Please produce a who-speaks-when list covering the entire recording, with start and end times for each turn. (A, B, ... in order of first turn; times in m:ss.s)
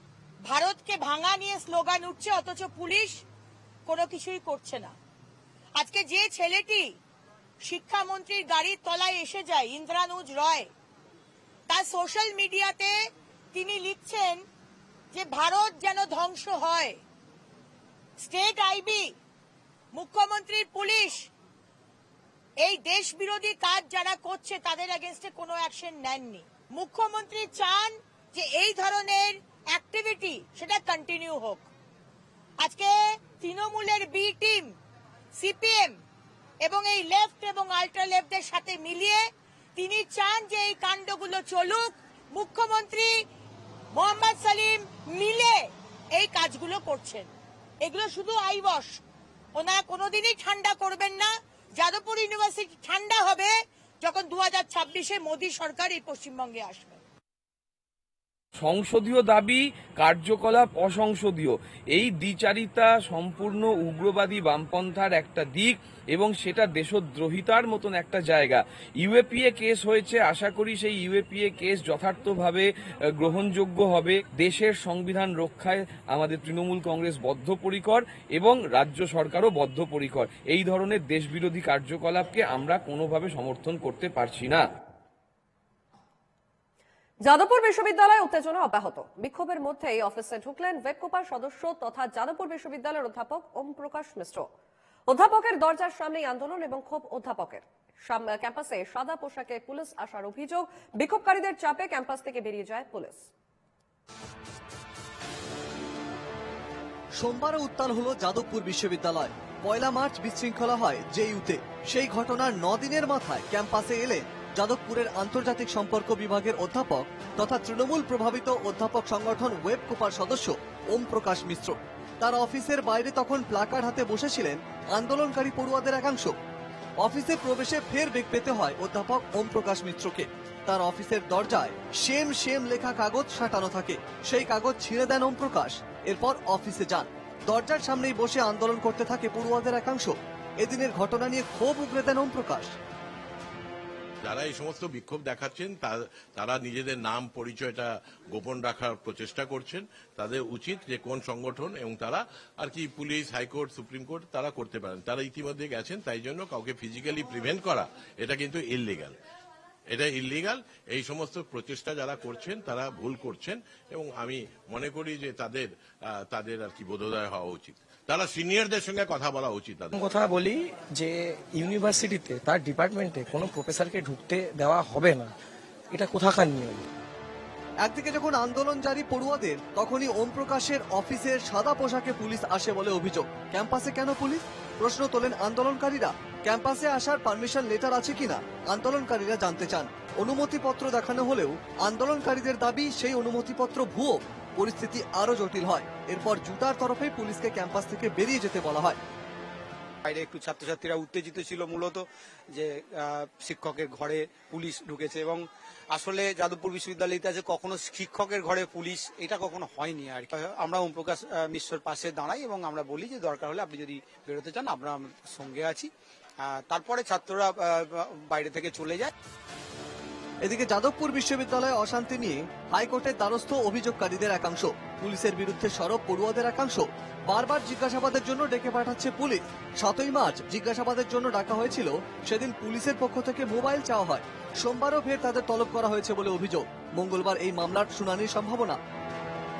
0:00.4-0:03.2 A
0:03.9-0:05.0 A
0:05.8-0:06.9 A
0:07.6-0:10.7 A
0:11.7-0:12.9 A
0:13.5-0:14.4 A
0:15.1-0:17.0 A
0:18.2-0:19.1 A
0:19.9-0:21.3 A
0:22.6-0:31.7 A
0:32.6-0:34.7 A
0:35.4-0:36.0 A
0:36.6-0:39.2 A
0:39.8-0:43.1 A
0:43.9-0:45.6 A
0:46.1-0:47.3 A
0:47.8-0:49.0 A
0:49.5-0:57.0 A
0:58.6-1:24.6 B
1:27.2-1:34.5 C
1:35.1-1:43.3 C
1:47.2-2:06.4 D
2:07.0-2:22.8 D
2:24.2-2:39.1 E
2:39.9-2:49.9 E
2:49.9-2:55.3 F
2:55.9-2:56.9 F
2:57.8-3:19.0 D
3:20.0-3:35.9 G
3:36.4-3:39.1 G
3:40.4-3:58.8 D